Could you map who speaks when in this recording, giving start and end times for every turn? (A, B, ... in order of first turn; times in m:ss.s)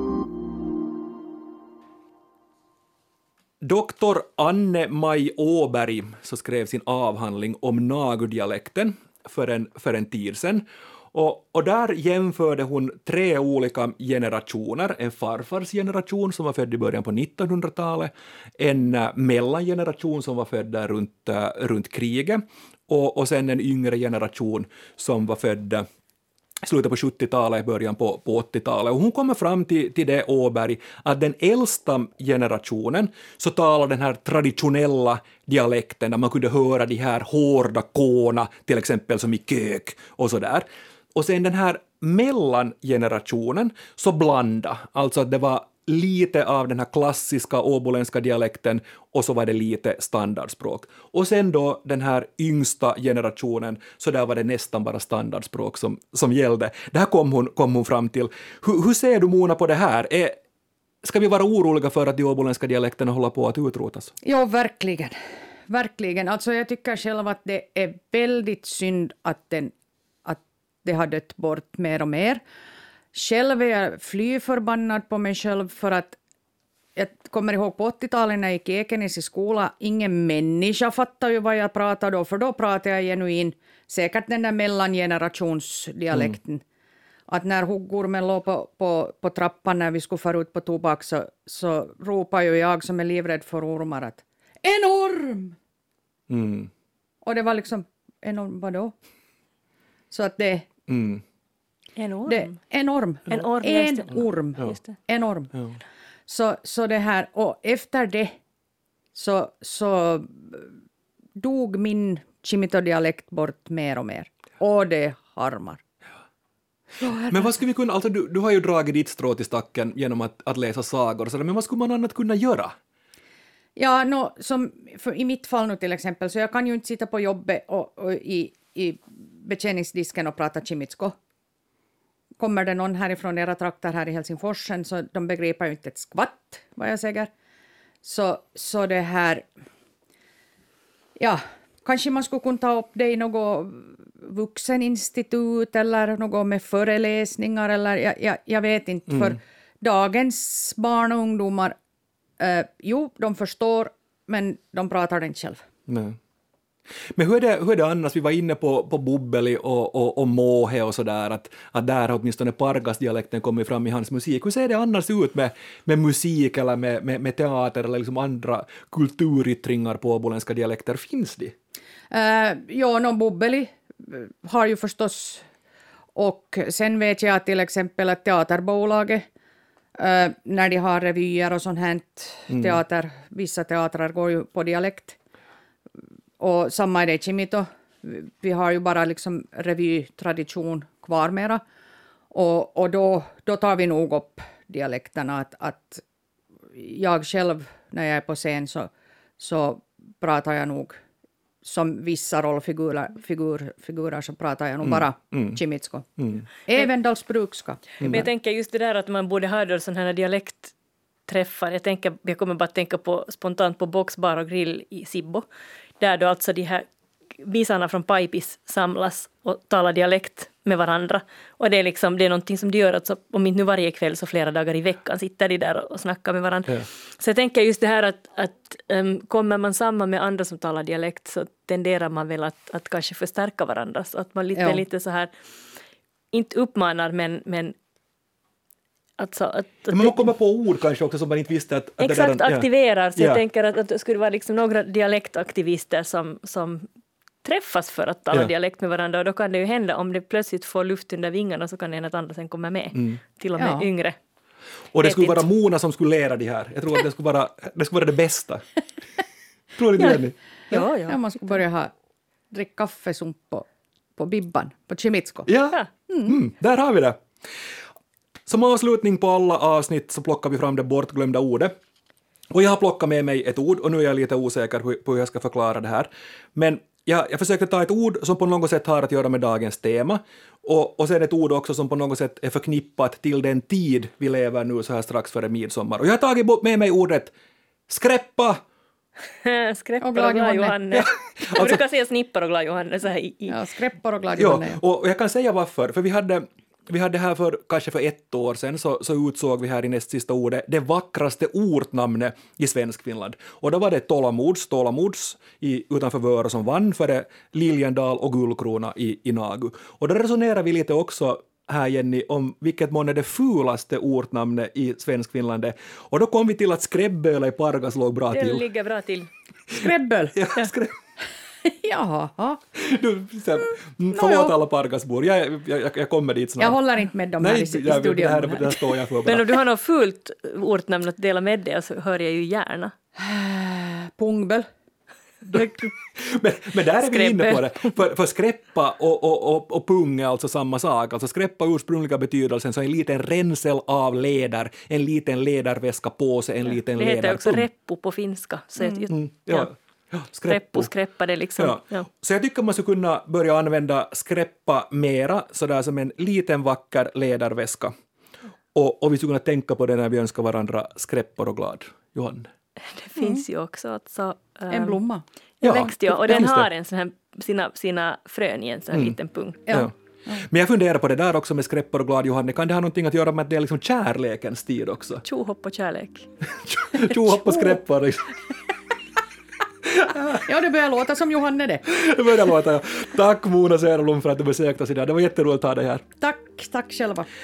0:03.6-0:25.9 A
0:26.6-1:00.4 A
1:01.0-1:04.1 A
1:04.2-1:05.1 B
1:05.7-1:09.7 B
1:10.2-1:12.4 B
1:13.1-1:16.2 B
1:17.0-1:26.6 B
1:27.3-1:35.6 B
1:36.3-1:36.7 A
1:37.2-1:38.9 B
1:40.1-1:40.7 B
1:40.9-1:41.2 A
1:42.0-1:42.6 C
1:42.3-1:45.5 B
1:43.3-1:44.1 C
1:44.7-1:45.0 C
1:45.5-1:45.8 A
1:46.3-1:48.4 B
1:49.1-1:50.7 B
1:51.4-1:55.8 B
1:57.0-1:57.5 B
1:57.3-2:02.8 A
2:03.8-2:11.2 B
2:12.4-2:17.3 B
2:18.0-2:19.4 B
2:21.2-2:31.7 B
2:29.1-2:29.4 A
2:32.4-2:35.6 B
2:35.9-2:36.2 A
2:37.2-2:51.5 A
2:52.1-2:55.4 B
2:56.1-2:59.3 B
3:00.0-3:05.2 B
3:02.5-3:02.8 A
3:06.4-3:11.6 B
3:12.3-3:16.0 B
3:16.7-3:21.0 B
3:21.6-3:28.2 B
3:24.8-3:25.6 A
3:26.2-3:26.4 A
3:28.0-3:28.2 A
3:28.0-3:30.7 C
3:31.3-3:35.5 C
3:36.0-3:36.8 C
3:37.4-3:55.3 C
3:54.5-3:54.8 B
3:56.3-3:57.7 C
3:59.2-4:00.2 C
3:59.9-4:03.4 A
4:02.0-4:06.9 C
4:07.4-4:14.2 C
4:12.9-4:13.2 A
4:13.6-4:13.9 B
4:14.9-4:18.6 A
4:15.0-4:15.4 C
4:19.8-4:20.4 A
4:20.7-4:21.2 C
4:20.7-4:21.9 B
4:22.5-4:23.6 B
4:24.2-4:25.5 B
4:25.5-4:27.2 A
4:26.1-4:26.3 B
4:28.5-4:31.7 A
4:32.5-4:47.3 A
4:47.9-4:48.6 A
4:49.4-4:53.6 C
4:50.0-4:50.8 B
4:50.9-4:51.8 A
4:53.5-4:54.8 B
4:54.4-5:18.6 A
5:18.3-5:19.3 C
5:19.7-5:20.4 B
5:20.3-5:21.0 A
5:21.6-5:22.6 B
5:22.7-5:26.8 A
5:24.1-5:24.5 B
5:26.6-5:28.9 B
5:27.4-5:29.5 A
5:29.2-5:32.9 C
5:33.2-5:34.6 B
5:35.4-5:47.7 A
5:37.0-5:37.8 C
5:46.7-5:49.7 C
5:48.8-5:49.1 B
5:49.1-5:50.9 A
5:50.5-5:52.0 C
5:51.6-5:57.9 A
5:58.7-6:02.5 A
6:02.9-6:05.0 C
6:03.2-6:03.4 B
6:04.7-6:05.2 B
6:05.6-6:09.6 C
6:05.6-6:06.7 A
6:09.7-6:10.4 B
6:09.7-6:15.2 A
6:15.2-6:16.3 C
6:16.6-6:18.4 A
6:19.9-6:20.4 A
6:20.3-6:21.8 B
6:21.8-6:26.0 A
6:26.2-6:27.3 B